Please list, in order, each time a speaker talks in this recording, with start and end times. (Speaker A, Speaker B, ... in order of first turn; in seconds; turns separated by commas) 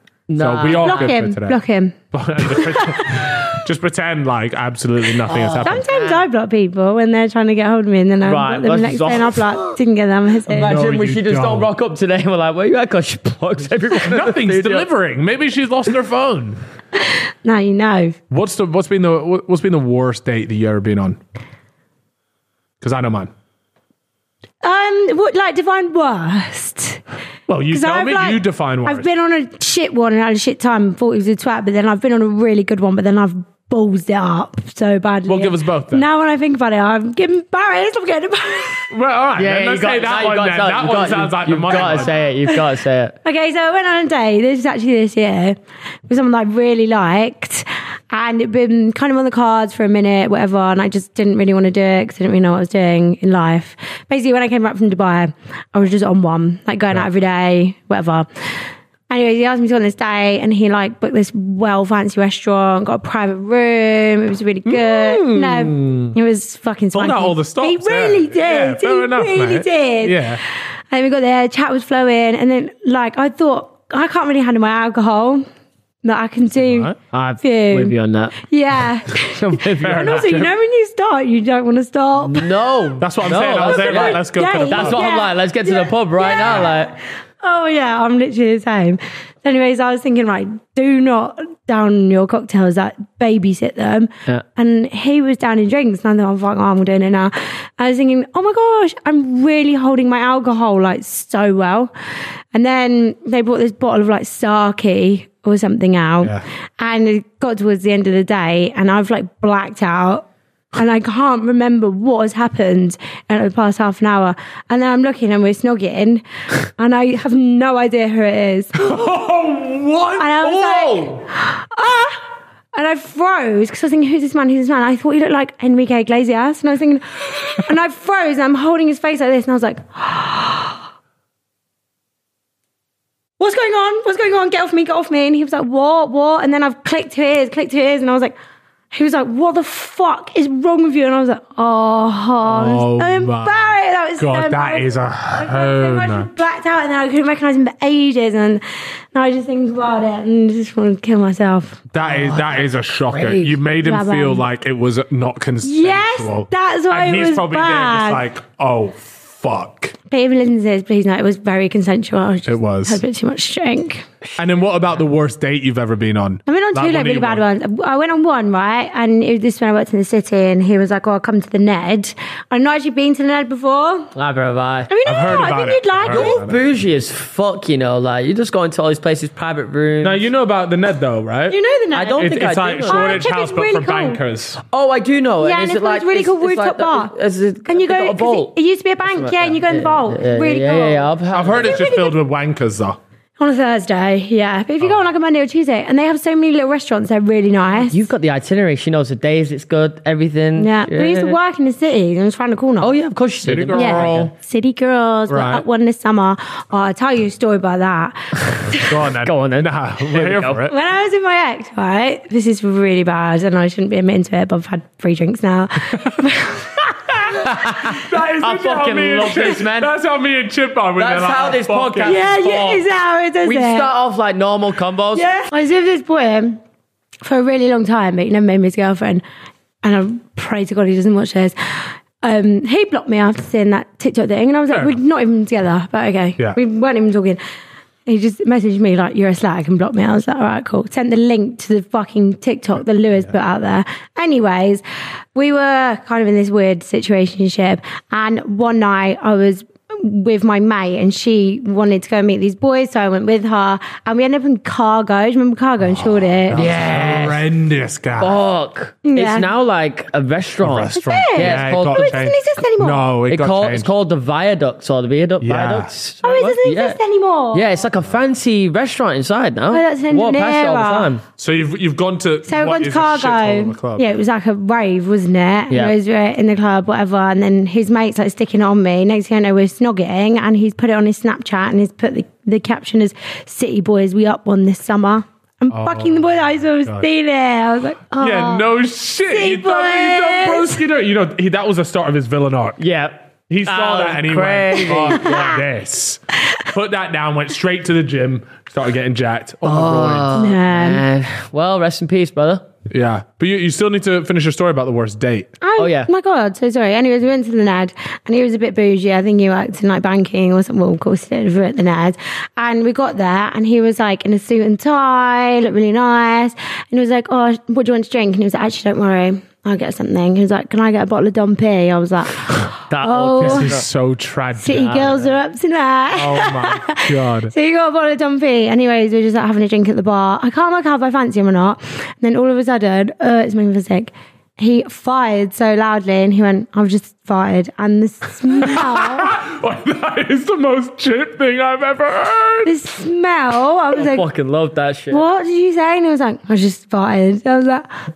Speaker A: 0.3-1.1, Speaker B: 0.3-1.6, Speaker C: 0.7-1.9, Speaker B: 2.1-5.8, Speaker C: 2.5-3.4, Speaker A: 5.3-6.2, Speaker C: 5.6-10.7, Speaker A: 8.2-9.7, Speaker A: 10.5-14.9, Speaker B: 10.6-11.7, Speaker B: 13.9-16.6, Speaker C: 17.0-18.1, Speaker B: 18.3-21.2, Speaker B: 22.8-23.3, Speaker C: 24.6-27.0, Speaker B: 27.5-29.1, Speaker C: 27.7-38.9, Speaker B: 35.3-36.0, Speaker B: 38.9-42.1, Speaker A: 39.4-43.1, Speaker C: 43.2-58.3, Speaker C: 59.1-70.4, Speaker B: 64.7-66.1, Speaker B: 66.9-70.4, Speaker C: 70.9-75.4, Speaker C: 76.0-76.9, Speaker B: 76.6-77.0, Speaker A: 77.1-78.3, Speaker C: 77.4-82.5, Speaker A: 79.3-80.2, Speaker B: 79.7-80.5, Speaker A: 82.2-86.9, Speaker B: 83.0-85.0, Speaker C: 83.4-101.9, Speaker B: 86.4-86.7, Speaker C: 102.5-118.7, Speaker B: 118.7-121.2, Speaker C: 120.2-130.8, Speaker C: 133.4-138.3, Speaker C: 138.9-148.6, Speaker B: 142.4-146.3, Speaker C: 149.1-151.8, Speaker B: 151.9-159.9, Speaker A: 152.0-153.6, Speaker C: 153.8-154.4, Speaker C: 155.6-158.2, Speaker C: 160.1-164.0, Speaker B: 162.4-163.0, Speaker B: 164.4-167.4, Speaker C: 166.5-174.1, Speaker A: 174.1-174.9, Speaker C: 174.9-176.4, Speaker B: 175.0-176.6, Speaker A: 176.1-180.2, Speaker B: 180.0-184.6, Speaker C: 181.5-182.3, Speaker A: 181.9-183.2, Speaker C: 182.8-184.2, Speaker A: 184.7-188.5, Speaker C: 185.4-187.1, Speaker C: 187.7-192.2, Speaker A: 189.0-191.8, Speaker B: 191.3-193.0, Speaker C: 193.4-198.1, Speaker A: 197.9-201.4, Speaker C: 200.6-202.9, Speaker A: 202.8-204.3, Speaker B: 203.4-204.3, Speaker C: 203.7-208.9, Speaker B: 205.3-205.6, Speaker B: 208.9-210.7, Speaker A: 209.2-210.7, Speaker C: 210.7-216.8, Speaker B: 217.3-222.6, Speaker A: 217.8-219.9, Speaker A: 221.0-222.8, Speaker C: 222.0-223.9, Speaker A: 223.4-225.3, Speaker C: 225.1-226.6, Speaker C: 227.2-229.2, Speaker C: 229.8-237.4, Speaker C: 238.1-244.8, Speaker C: 245.3-256.7, Speaker B: 255.8-258.4, Speaker A: 256.5-257.5, Speaker A: 258.2-262.2, Speaker C: 259.0-259.5, Speaker B: 260.6-263.9, Speaker C: 260.9-263.0, Speaker A: 263.3-267.0, Speaker B: 265.4-265.9, Speaker C: 266.2-267.6, Speaker A: 267.5-271.2, Speaker C: 269.7-271.1, Speaker B: 271.4-274.1, Speaker C: 272.5-288.7, Speaker B: 285.7-287.1, Speaker B: 288.1-292.8, Speaker C: 289.3-290.8, Speaker A: 292.8-295.6, Speaker B: 293.5-300.4, Speaker A: 299.6-302.6, Speaker C: 300.4-301.0, Speaker B: 302.9-305.5, Speaker C: 305.6-323.8, Speaker A: 305.8-306.1, Speaker A: 322.9-323.9, Speaker B: 323.4-325.1, Speaker C: 324.6-339.4, Speaker A: 324.7-325.3, Speaker B: 326.1-327.5, Speaker B: 338.6-342.7, Speaker C: 342.6-344.3, Speaker A: 343.9-345.2, Speaker C: 345.1-347.9